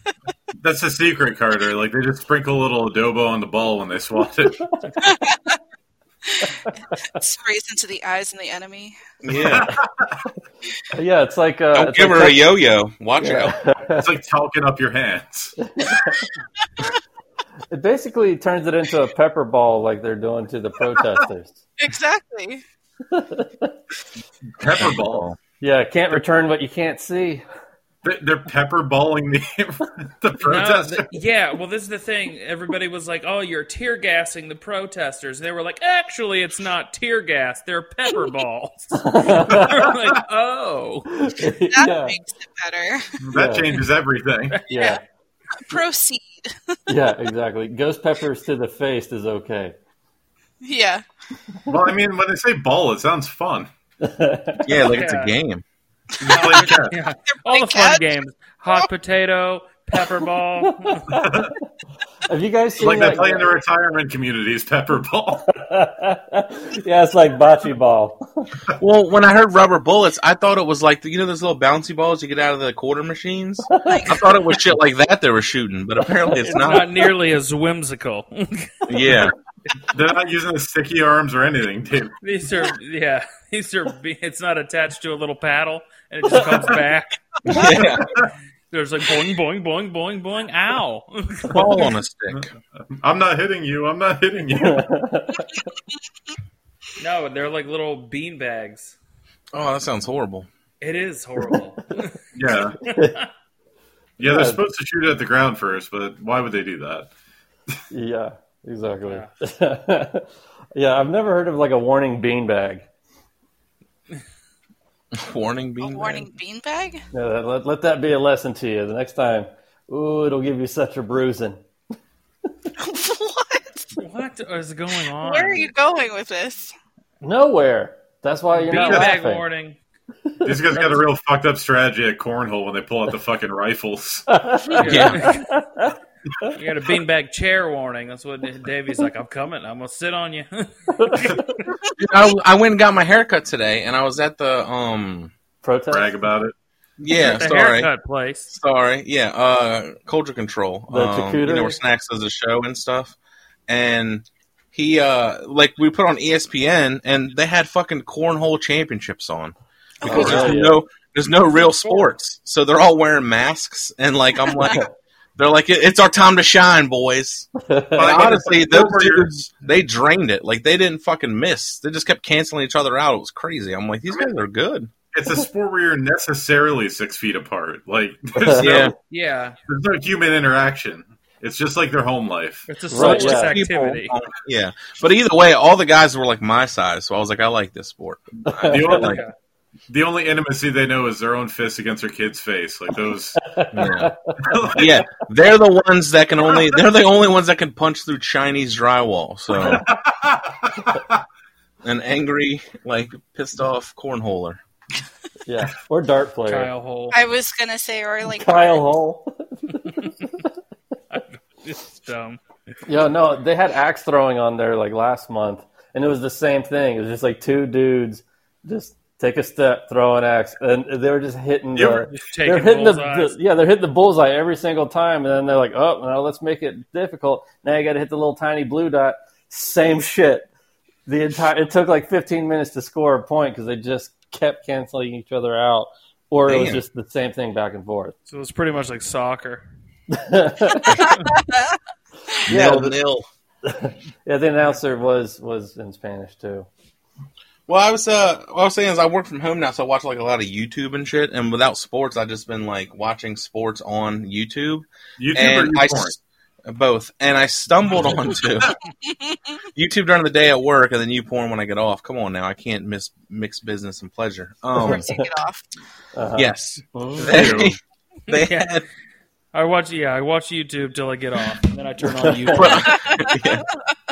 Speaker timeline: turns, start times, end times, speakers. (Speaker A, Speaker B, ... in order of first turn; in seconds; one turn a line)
Speaker A: 0.6-4.6
Speaker B: 4.5-4.9
Speaker C: 5.0-5.6
Speaker B: 6.6-7.0
Speaker C: 7.1-8.9
Speaker D: 9.2-9.7
Speaker A: 9.3-10.2
Speaker B: 10.9-12.5
Speaker D: 11.7-13.6
Speaker B: 13.2-14.1
Speaker A: 13.9-15.5
Speaker B: 15.6-16.3
Speaker B: 17.7-21.6
Speaker C: 21.8-22.6
Speaker B: 23.1-23.8
Speaker A: 24.6-25.3
Speaker D: 24.8-25.4
Speaker B: 25.6-27.4
Speaker A: 28.0-31.1
Speaker E: 30.4-41.2
Speaker B: 39.0-39.9
Speaker A: 39.5-40.1
Speaker B: 41.1-42.2
Speaker C: 41.7-43.2
Speaker A: 43.2-44.6
Speaker B: 43.3-43.8
Speaker E: 44.5-44.9
Speaker B: 44.7-45.0
Speaker C: 45.5-46.8
Speaker B: 46.9-49.7
Speaker C: 50.6-51.0
Speaker A: 51.7-53.7
Speaker B: 54.0-54.7
Speaker D: 54.6-55.6
Speaker E: 54.9-55.3
Speaker A: 56.2-57.0
Speaker C: 56.2-56.6
Speaker E: 56.3-61.1
Speaker C: 57.3-58.0
Speaker B: 60.8-61.6
Speaker A: 61.1-61.5
Speaker B: 62.3-63.6
Speaker A: 62.8-65.5
Speaker B: 65.5-68.5
Speaker D: 68.8-76.9
Speaker B: 73.7-74.1
Speaker C: 73.8-74.4
Speaker B: 76.3-76.9
Speaker E: 76.5-78.9
Speaker D: 78.9-79.3
Speaker A: 79.9-82.1
Speaker E: 82.2-87.6
Speaker D: 87.4-88.1
Speaker A: 88.0-88.3
Speaker E: 88.7-91.8
Speaker D: 91.5-92.5
Speaker A: 93.0-94.8
Speaker B: 94.6-95.6
Speaker E: 97.0-99.0
Speaker D: 99.5-100.5
Speaker E: 100.8-102.2
Speaker A: 102.3-102.8
Speaker E: 102.8-103.3
Speaker B: 102.8-103.2
Speaker A: 104.2-107.1
Speaker B: 104.2-104.6
Speaker B: 107.9-112.8
Speaker D: 115.1-116.3
Speaker C: 115.8-117.0
Speaker B: 117.1-121.6
Speaker C: 122.8-123.9
Speaker E: 123.9-125.7
Speaker C: 125.2-126.7
Speaker B: 127.2-129.4
Speaker E: 128.6-129.8
Speaker A: 130.4-134.3
Speaker E: 130.7-131.0
Speaker B: 134.3-136.5
Speaker E: 134.7-135.5
Speaker D: 134.8-135.3
Speaker E: 136.5-141.5
Speaker B: 140.9-141.6
Speaker D: 142.0-145.3
Speaker B: 145.6-146.2
Speaker A: 145.9-146.5
Speaker D: 147.0-147.9
Speaker E: 147.1-148.5
Speaker D: 148.5-153.2
Speaker B: 150.9-151.8
Speaker D: 153.7-167.5
Speaker B: 160.0-160.8
Speaker A: 160.1-160.4
Speaker E: 161.7-162.0
Speaker C: 164.5-164.7
Speaker B: 167.6-168.3
Speaker A: 167.9-169.3
Speaker D: 168.0-174.9
Speaker A: 175.1-178.9
Speaker B: 178.3-178.8
Speaker D: 178.5-178.9
Speaker E: 179.1-179.6
Speaker A: 179.7-182.7
Speaker E: 182.7-184.1
Speaker B: 182.9-183.5
Speaker D: 182.9-189.2
Speaker B: 188.4-189.1
Speaker A: 188.6-189.2
Speaker E: 189.0-189.3
Speaker A: 189.9-193.5
Speaker B: 193.3-194.6
Speaker D: 193.7-194.1
Speaker A: 194.4-195.0
Speaker D: 194.7-199.8
Speaker A: 199.6-201.2
Speaker D: 201.8-204.6
Speaker B: 205.4-206.7
Speaker E: 206.5-207.2
Speaker C: 207.1-208.8
Speaker B: 208.3-210.3
Speaker E: 211.1-212.4
Speaker B: 212.8-230.5
Speaker A: 221.8-222.0
Speaker E: 221.8-223.3
Speaker B: 231.1-238.1
Speaker D: 236.4-236.8
Speaker E: 238.3-239.6
Speaker B: 240.1-241.2
Speaker C: 241.0-241.8
Speaker B: 242.5-243.0
Speaker D: 242.5-243.2
Speaker B: 243.6-246.7
Speaker D: 247.7-258.8
Speaker A: 255.2-256.1
Speaker D: 259.7-265.1
Speaker C: 264.8-265.7
Speaker B: 264.8-265.3
Speaker B: 266.1-267.7
Speaker D: 266.4-267.8
Speaker A: 267.2-267.8
Speaker E: 268.3-268.8
Speaker D: 268.3-268.9
Speaker E: 269.5-273.1
Speaker B: 272.2-272.8
Speaker D: 272.5-273.7
Speaker C: 272.9-273.6